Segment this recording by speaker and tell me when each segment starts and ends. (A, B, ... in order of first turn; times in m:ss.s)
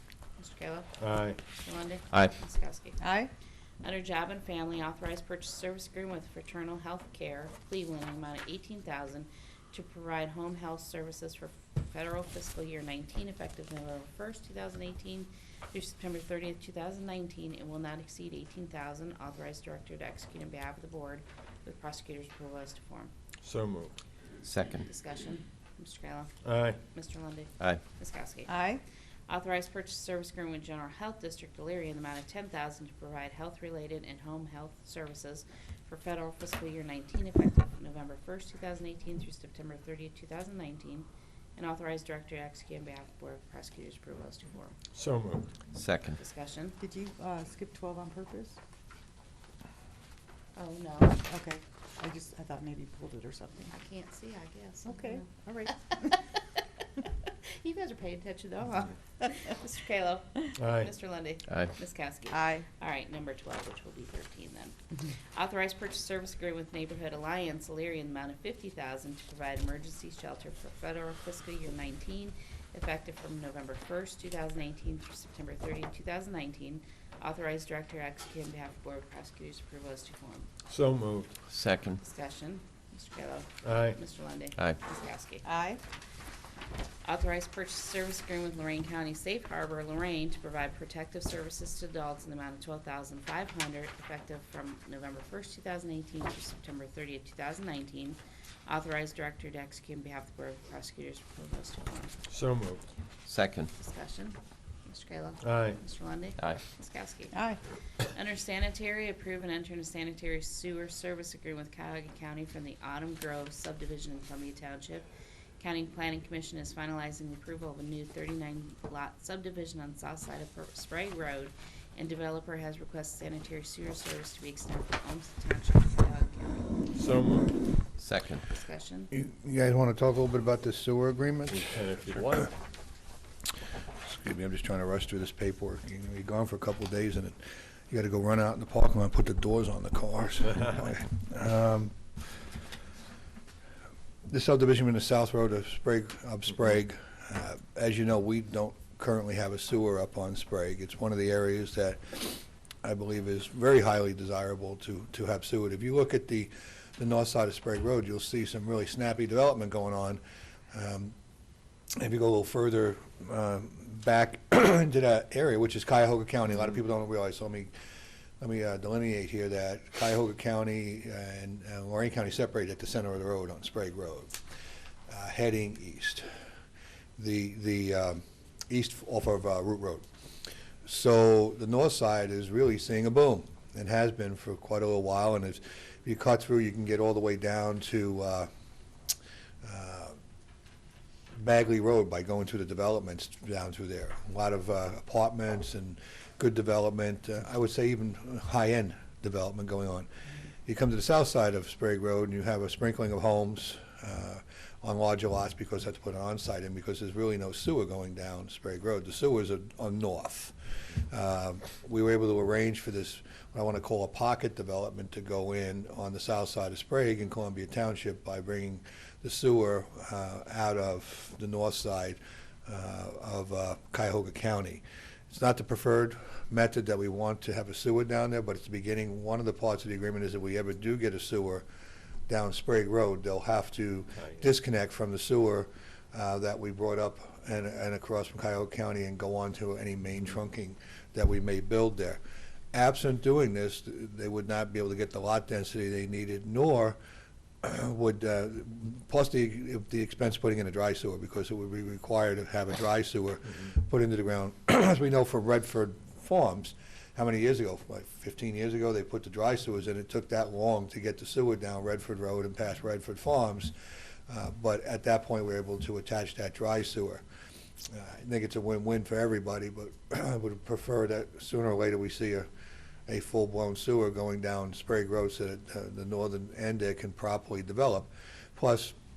0:00.4-0:03.0 A
0:01.0-0:01.4 B
0:03.0-0:03.3 C
0:03.8-0:23.1 A
0:23.4-0:23.9 B
0:24.4-0:24.9 D
0:24.6-0:28.6 A
0:26.4-0:26.8 B
0:28.5-0:28.8 C
0:29.3-0:44.7 A
0:44.9-0:45.5 B
0:45.7-0:46.2 D
0:46.2-0:46.8 A
0:46.8-0:48.6 C
0:50.6-0:51.2 A
0:51.3-0:53.7 C
0:53.7-0:56.2 A
0:54.9-0:56.2 C
0:57.4-1:20.5 A
1:00.6-1:00.9 B
1:01.5-1:01.7 D
1:02.3-1:02.6 C
1:20.7-1:21.4 B
1:21.5-1:22.0 D
1:22.0-1:25.4 A
1:23.6-1:24.0 B
1:25.4-1:25.8 C
1:27.0-1:42.2 A
1:42.3-1:42.8 B
1:43.3-1:43.7 D
1:43.8-1:47.4 A
1:45.4-1:45.8 B
1:47.3-1:47.6 C
1:48.0-1:55.0 A
1:55.6-2:06.7 A
2:06.9-2:07.8 B
2:08.0-2:08.4 D
2:08.5-2:09.1 A
2:09.1-2:11.7 E
2:11.5-2:12.6 B
2:14.0-2:17.4 E
2:17.9-2:22.0 E
2:24.3-2:40.2 E
2:40.7-2:41.1 E
2:42.0-2:47.7 E
2:48.4-2:54.4 E
2:55.1-2:56.3 E
2:57.2-3:00.0 E
3:00.8-3:08.5 E
3:09.6-3:10.1 E
3:11.4-3:20.0 E
3:20.6-3:51.6 E
3:52.3-4:02.2 E
4:02.7-4:07.0 E
4:07.6-4:23.7 E
4:24.3-4:27.2 E
4:27.9-4:32.5 E
4:33.1-4:38.9 E